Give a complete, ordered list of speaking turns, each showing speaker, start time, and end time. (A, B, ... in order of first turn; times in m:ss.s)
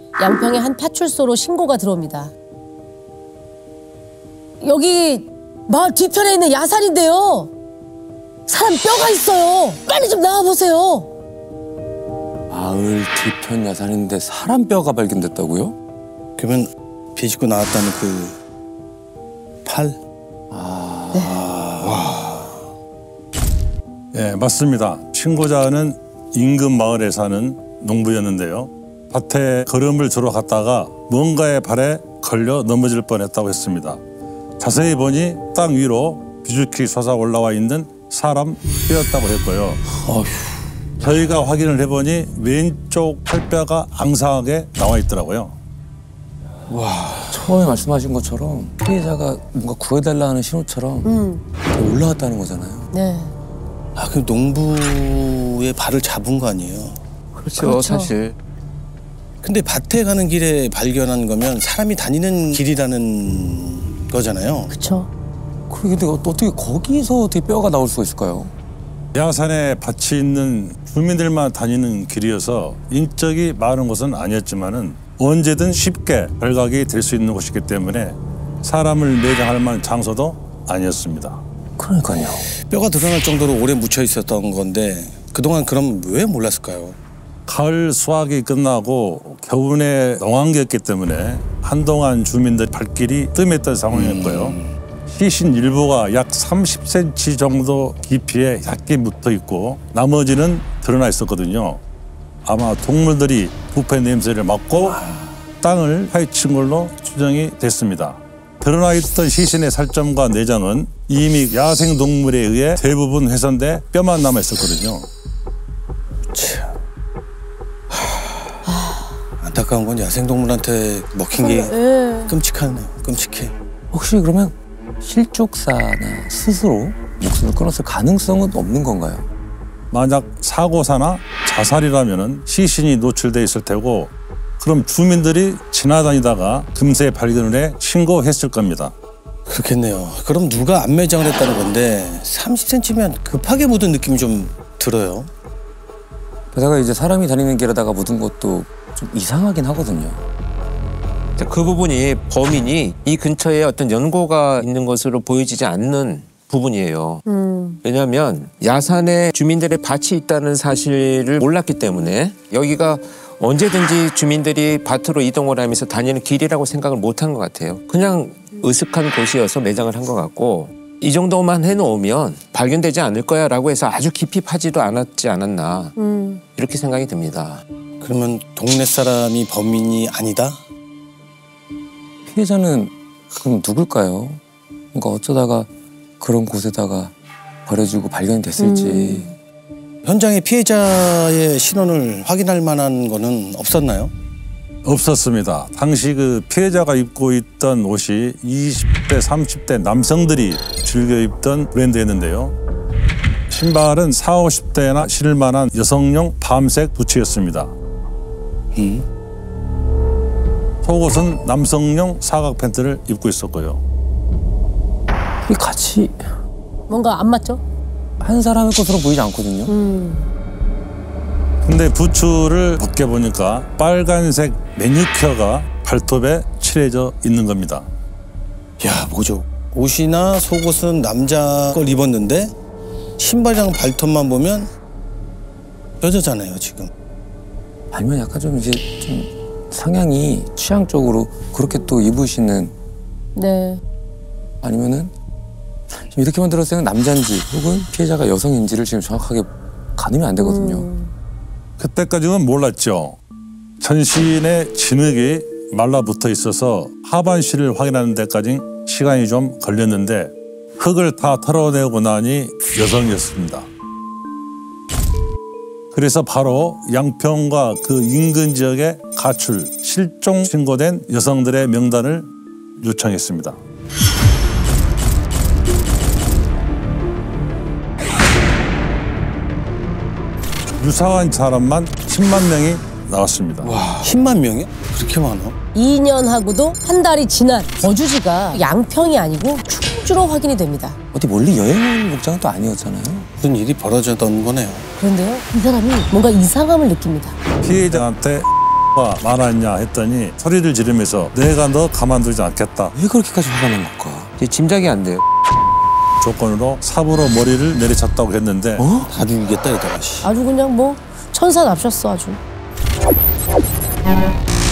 0:00.2-0:02.3 A
0:04.6-0:07.5 A
0:08.5-0:11.1 A
0:12.5-0:15.8 B
0:16.4-0:18.4 C
0:19.6-0:20.0 C
0:20.5-0:21.5 B
0:21.1-0:21.4 A
0:21.3-0:22.6 C
0:24.1-0:34.0 D
0:34.6-0:39.8 D
0:40.0-0:41.0 C
0:41.0-0:45.6 D
0:46.7-0:47.6 C
0:47.3-0:51.1 B
0:51.0-0:51.4 A
0:51.7-0:52.9 B
0:52.9-0:53.3 A
0:54.0-0:57.0 C
0:57.4-0:58.4 E
0:57.6-0:58.1 A
0:59.4-1:04.7 C
1:04.7-1:05.1 A
1:05.7-1:08.5 B
1:09.1-1:21.4 D
1:21.8-1:22.5 B
1:22.5-1:27.0 C
1:27.5-1:41.8 D
1:33.9-1:34.7 C
1:42.4-1:45.0 D
1:45.6-1:55.1 D
1:56.3-1:56.7 C
1:57.9-1:58.6 C
1:58.6-1:59.1 A
1:59.4-2:01.8 C
2:01.4-2:02.3 A
2:02.3-2:03.5 C
2:03.9-2:09.3 B
2:09.9-2:18.9 D
2:19.5-2:25.3 C
2:26.5-2:30.2 B
2:31.4-2:37.2 E
2:37.2-2:37.8 A
2:37.8-2:55.9 E
2:56.0-2:56.4 A
2:56.6-2:57.6 E
2:58.0-3:00.6 C
3:02.3-3:04.4 B
3:04.9-3:07.1 B
3:07.6-3:09.3 B
3:08.6-3:09.3 A
3:10.0-3:14.1 C
3:14.8-3:22.6 D
3:23.5-3:27.8 D
3:28.7-3:29.0 C
3:30.8-3:33.8 D
3:35.4-3:36.2 B
3:36.9-3:37.6 A
3:38.2-3:39.7 B
3:39.7-3:40.3 A
3:41.6-3:47.9 D
3:48.8-3:52.5 C
3:53.2-3:54.7 C
3:56.0-3:56.9 C
3:57.9-4:02.7 B
4:03.3-4:03.8 A
4:04.6-4:05.1 B
4:05.9-4:10.9 B
4:10.4-4:11.1 A
4:11.8-4:13.2 D
4:13.8-4:23.7 D
4:25.9-4:33.6 D
4:40.8-4:43.8 D
4:43.6-4:45.6 C
4:45.7-4:51.0 A
4:51.1-4:53.3 B
4:53.4-4:54.9 C
4:55.0-4:57.4 A
4:57.6-5:02.9 D
5:02.9-5:04.3 B
5:04.4-5:05.2 E
5:06.2-5:08.9 D
5:08.8-5:09.1 B
5:09.0-5:10.3 C
5:10.2-5:12.4 A